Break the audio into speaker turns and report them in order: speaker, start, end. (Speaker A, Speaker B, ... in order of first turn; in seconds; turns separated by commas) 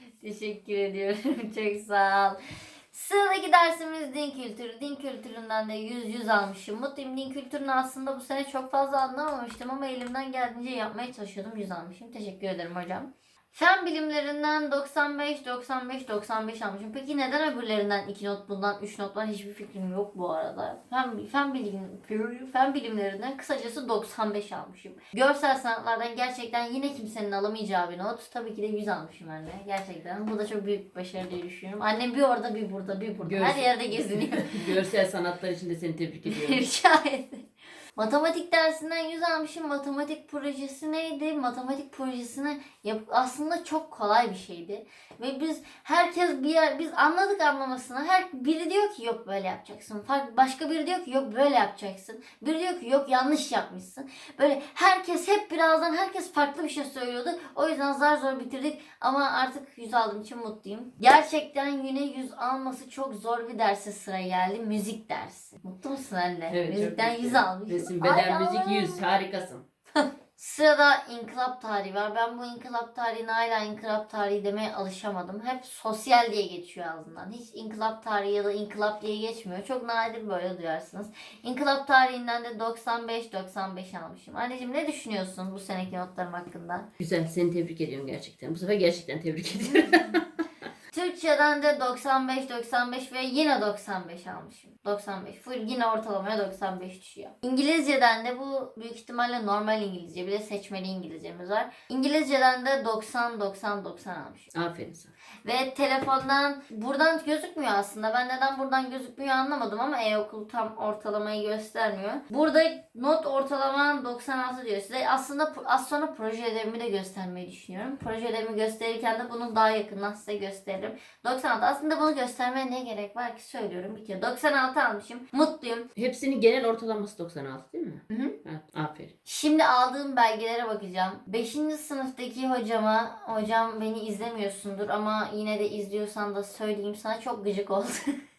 Speaker A: 0.2-2.4, Speaker A: 2.9-34.7, Speaker B: 33.2-36.6, Speaker A: 36.3-37.4, Speaker A: 38.0-69.0, Speaker B: 66.5-69.6, Speaker A: 70.4-86.9, Speaker B: 87.0-90.2, Speaker A: 90.9-104.5, Speaker B: 104.5-105.1, Speaker A: 105.4-125.9, Speaker B: 126.0-129.1, Speaker A: 129.3-138.1